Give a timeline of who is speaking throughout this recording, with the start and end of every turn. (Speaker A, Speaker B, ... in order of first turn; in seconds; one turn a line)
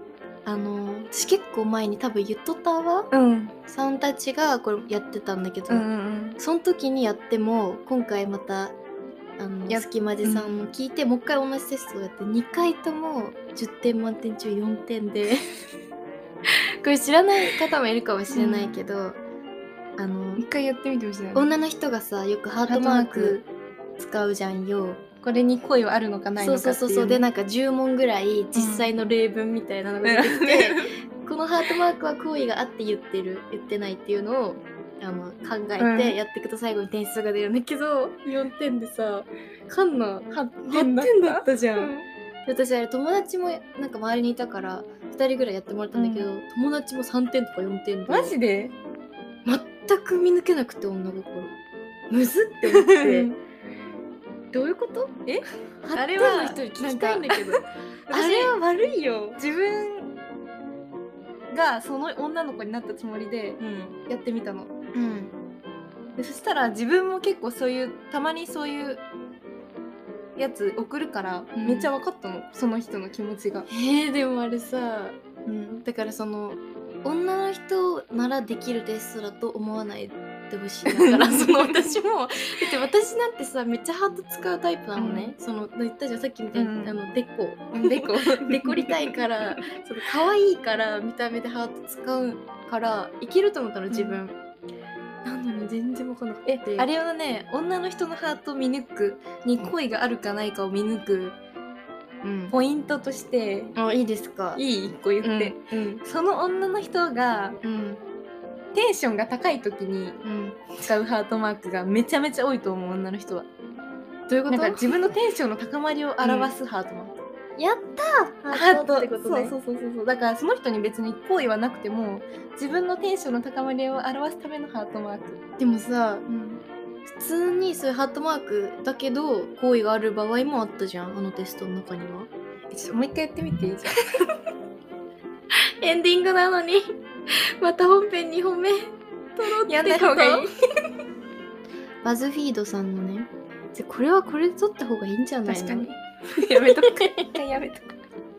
Speaker A: 0.5-3.1
Speaker B: 3.1-3.5
Speaker A: 3.7-8.8
Speaker B: 5.7-6.4
Speaker A: 9.4-15.5
Speaker B: 9.7-10.7
Speaker A: 16.8-19.2
Speaker B: 18.3-18.8
Speaker A: 20.0-20.4
Speaker B: 20.4-21.5
Speaker A: 21.4-23.4
Speaker B: 22.7-23.4
Speaker A: 24.0-25.0
Speaker B: 25.2-27.3
Speaker A: 26.4-41.9
Speaker B: 28.6-28.9
Speaker B: 30.0-30.8
Speaker B: 35.8-36.2
Speaker B: 40.7-42.1
Speaker A: 42.5-48.4
Speaker B: 45.9-46.3
Speaker B: 48.1-48.7
Speaker A: 49.5-51.6
Speaker A: 52.1-53.3
Speaker B: 52.7-53.4
Speaker A: 54.5-55.2
Speaker B: 55.3-58.5
Speaker A: 55.8-59.4
Speaker B: 59.4-60.1
Speaker B: 61.5-64.7
Speaker A: 63.6-64.0
Speaker A: 64.9-65.3
Speaker B: 66.2-69.0
Speaker B: 70.4-73.7
Speaker A: 71.5-71.9
Speaker A: 73.7-75.2
Speaker B: 75.5-75.8
Speaker A: 75.8-94.4
Speaker B: 80.9-82.0
Speaker B: 85.0-85.3
Speaker B: 86.5-87.0
Speaker B: 87.8-89.6
Speaker B: 93.9-94.2
Speaker A: 95.2-96.9
Speaker B: 96.5-101.4
Speaker A: 102.2-102.5
Speaker B: 102.5-103.8
Speaker A: 103.8-104.6
Speaker B: 104.6-107.6
Speaker A: 105.2-106.0
Speaker A: 107.6-108.0
Speaker B: 108.7-110.2
Speaker A: 110.2-110.8
Speaker B: 110.8-113.5
Speaker A: 114.3-115.0
Speaker B: 114.5-117.2
Speaker A: 116.2-116.5
Speaker A: 117.6-119.5
Speaker B: 118.5-125.4
Speaker A: 125.6-126.3
Speaker B: 126.3-126.6
Speaker A: 127.1-132.3
Speaker B: 132.7-134.0
Speaker A: 135.8-140.5
Speaker B: 139.4-140.5
Speaker A: 142.0-147.4
Speaker B: 145.5-148.0